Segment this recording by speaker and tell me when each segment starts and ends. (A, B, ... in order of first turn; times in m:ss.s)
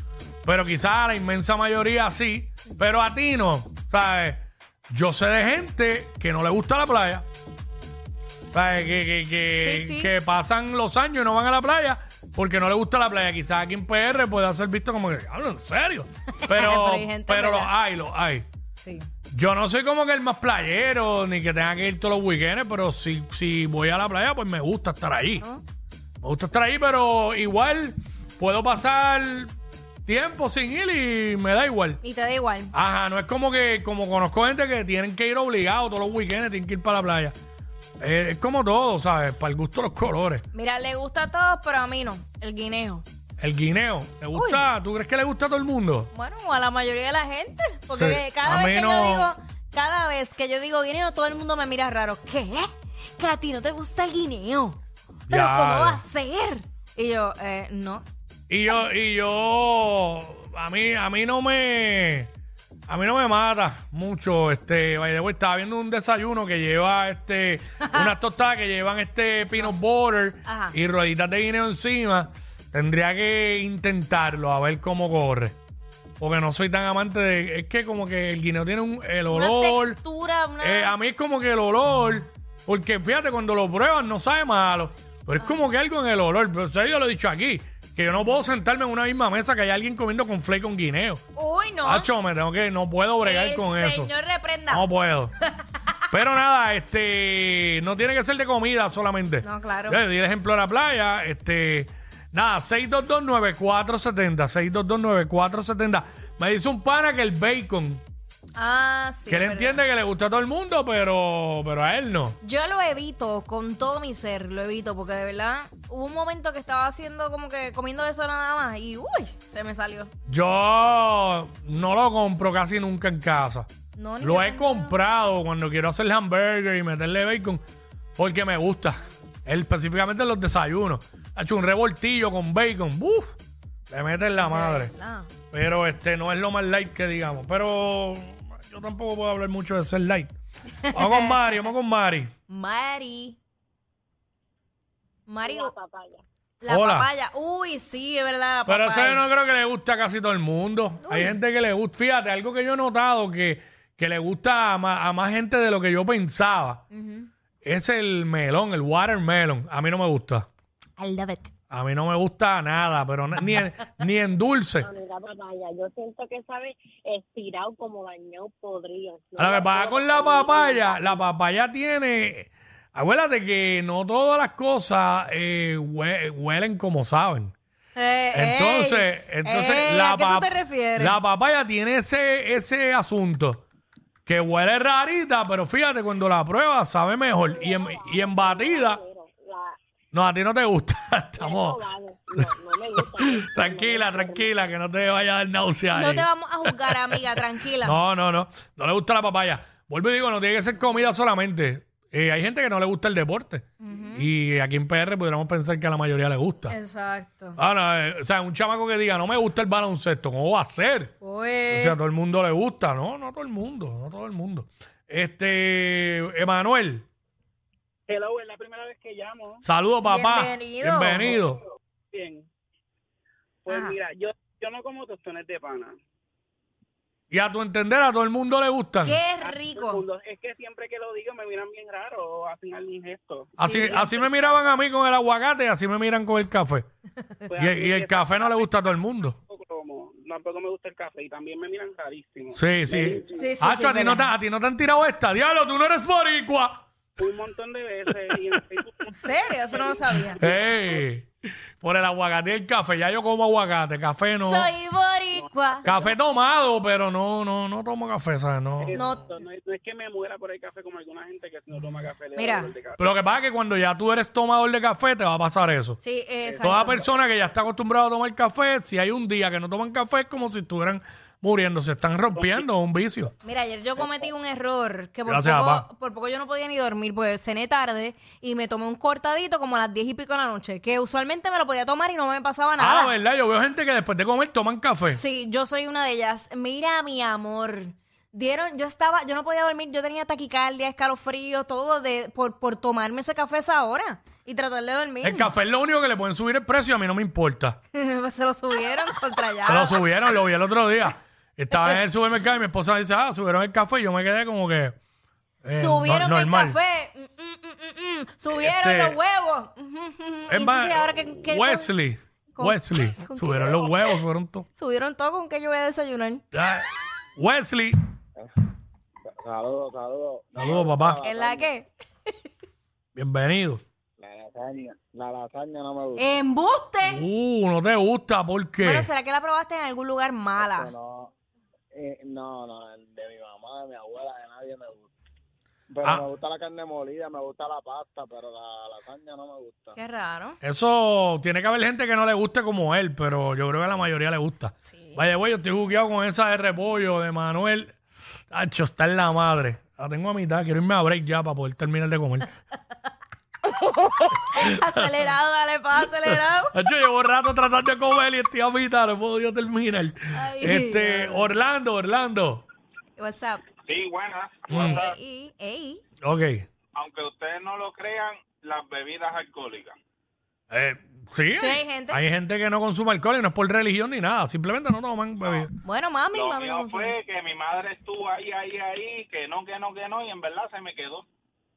0:00.4-0:07.2 A
0:08.5-0:18.5 A
0:09.6-0:10.1 B
0:16.4-0:17.7 B
0:18.8-0:19.1 B
0:19.3-0:25.4 A
0:26.2-0:29.5 A
0:30.0-0:32.0 A
0:32.0-0:32.7 B
0:32.7-0:37.4 A
0:38.0-0:40.4 A
0:40.5-0:43.0 B
0:43.4-0:46.1 A
0:44.3-0:44.6 B
0:46.1-0:54.8 B
0:47.9-0:49.3 A
0:55.3-0:56.0 A
0:55.3-0:58.0 B
0:58.5-1:02.3 A
1:02.9-1:15.6 A
1:10.5-1:10.8 B
1:16.2-1:20.0 A
1:19.3-1:21.0 B
1:20.6-1:31.2 A
1:31.4-1:32.1 B
1:31.8-1:34.1 A
1:33.2-1:34.9 B
1:34.7-1:35.3 A
1:36.1-1:48.0 A
1:39.4-1:40.0 B
1:48.6-1:49.8 B
1:49.3-1:52.4 A
1:52.4-2:00.1 B
2:00.3-2:03.7 A
2:04.0-2:05.0 B
2:04.2-2:07.6 A
2:08.2-2:13.4 A
2:13.9-2:14.9 A
2:14.4-2:15.3 B
2:15.5-2:20.3 A
2:20.9-2:21.7 B
2:20.9-2:22.3 A
2:22.5-2:23.4 B
2:25.3-2:25.7 B
2:25.4-2:26.2 C
2:26.6-2:29.2 B
2:26.7-2:27.1 A
2:28.7-2:36.8 A
2:31.0-2:31.3 B
2:36.9-2:37.3 B
2:37.6-2:40.5 A
2:41.0-2:41.5 B
2:41.7-2:44.9 A
2:44.8-2:51.2 C
2:49.4-2:57.5 A
2:58.0-3:01.2 B
2:58.3-3:03.6 A
3:04.3-3:09.0 A
3:07.4-3:09.8 C
3:10.1-3:11.8 A
3:11.4-3:14.5 C
3:12.4-3:26.8 A
3:15.9-3:18.0 B
3:23.8-3:24.3 B
3:26.7-3:27.6 B
3:27.6-3:31.1 A
3:31.2-3:32.0 B
3:31.7-3:37.0 A
3:38.1-3:39.6 D
3:39.6-3:41.6 A
3:40.0-3:41.4 B
3:41.3-3:42.5 D
3:43.6-3:46.0 D
3:43.7-3:44.0 B
3:47.3-3:49.2 A
3:49.0-3:50.0 B
3:49.4-3:54.7 D
3:53.6-3:56.9 A
3:53.6-3:54.0 B
3:57.5-4:03.4 D
3:57.6-3:59.4 A
4:02.5-4:06.8 A
4:03.4-4:04.3 B
4:07.2-4:10.8 D
4:09.1-4:10.4 B
4:10.4-4:11.3 A
4:11.8-4:14.7 A
4:14.4-4:15.9 B
4:15.4-4:16.1 D
4:15.8-4:19.0 A
4:18.8-4:23.2 D
4:18.9-4:19.3 B
4:22.4-4:22.7 B
4:23.0-4:26.0 A
4:26.0-4:27.1 B
4:26.4-4:26.9 D
4:26.6-4:33.3 A
4:33.4-4:43.1 B
4:35.3-4:35.9 A
4:42.8-4:45.2 A
4:45.1-4:55.5 B
4:55.2-4:57.8 A
4:57.9-5:00.0 B
4:59.7-5:05.0 A
5:05.6-5:06.8 A
5:05.8-5:11.9 B
5:08.5-5:09.2 A
5:10.5-5:14.7 A
5:12.5-5:14.2 B
5:14.8-5:16.4 B
5:16.5-5:18.0 A
5:19.4-5:21.7 E
5:20.6-5:21.2 A
5:21.2-5:21.9 B
5:23.2-5:23.8 A
5:24.2-5:26.2 E
5:26.2-5:27.2 B
5:27.0-5:29.1 A
5:28.8-5:30.9 B
5:30.6-5:31.3 E
5:31.9-5:35.1 E
5:35.9-5:40.0 E
5:39.9-5:40.6 B
5:40.6-5:48.0 A
5:44.8-5:45.2 B
5:48.5-5:52.5 A
5:53.7-5:56.8 B
5:54.6-5:55.3 A
5:56.3-6:02.6 A
6:00.3-6:01.5 B
6:03.2-6:03.6 B
6:03.9-6:05.2 D
6:04.7-6:05.0 A
6:04.7-6:06.0 B
6:06.2-6:06.7 A
6:06.9-6:10.0 D
6:10.7-6:15.7 A
6:11.5-6:12.2 B
6:15.8-6:17.2 B
6:16.3-6:21.3 D